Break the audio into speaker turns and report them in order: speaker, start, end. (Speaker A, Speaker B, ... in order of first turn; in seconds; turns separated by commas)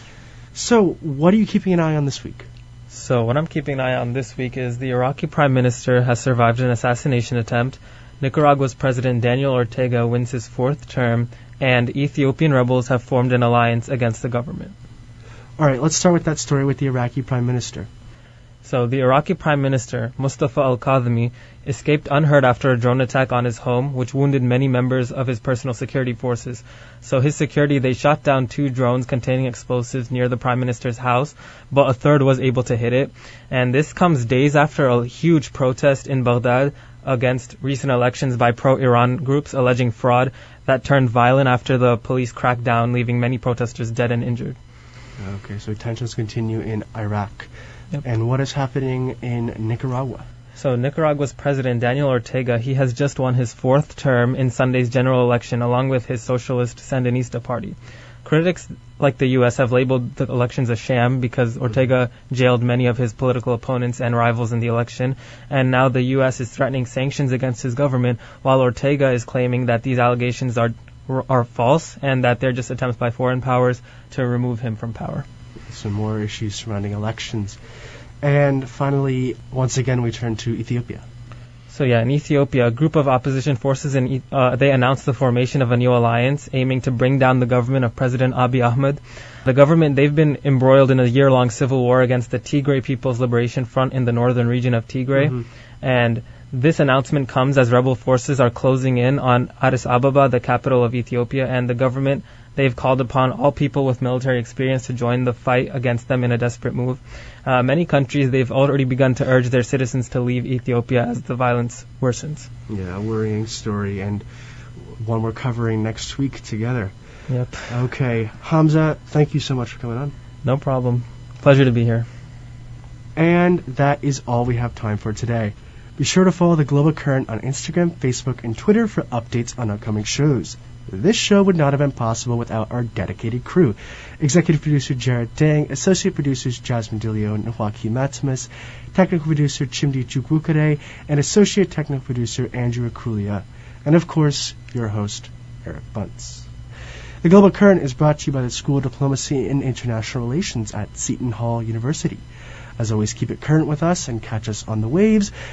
Speaker A: 0.5-2.5, Speaker B: 2.9-14.7, Speaker A: 15.6-17.9, Speaker B: 18.6-44.6, Speaker A: 45.2-47.5, Speaker A: 48.0-50.2, Speaker B: 50.5-75.2, Speaker A: 75.7-77.6, Speaker A: 78.2-81.0, Speaker B: 81.7-112.5, Speaker A: 112.7-114.2, Speaker A: 114.8-116.9, Speaker B: 117.3-117.7, Speaker A: 117.7-120.1, Speaker B: 120.4-122.1, Speaker A: 123.2-146.5, Speaker A: 147.2-152.2, Speaker A: 152.8-155.3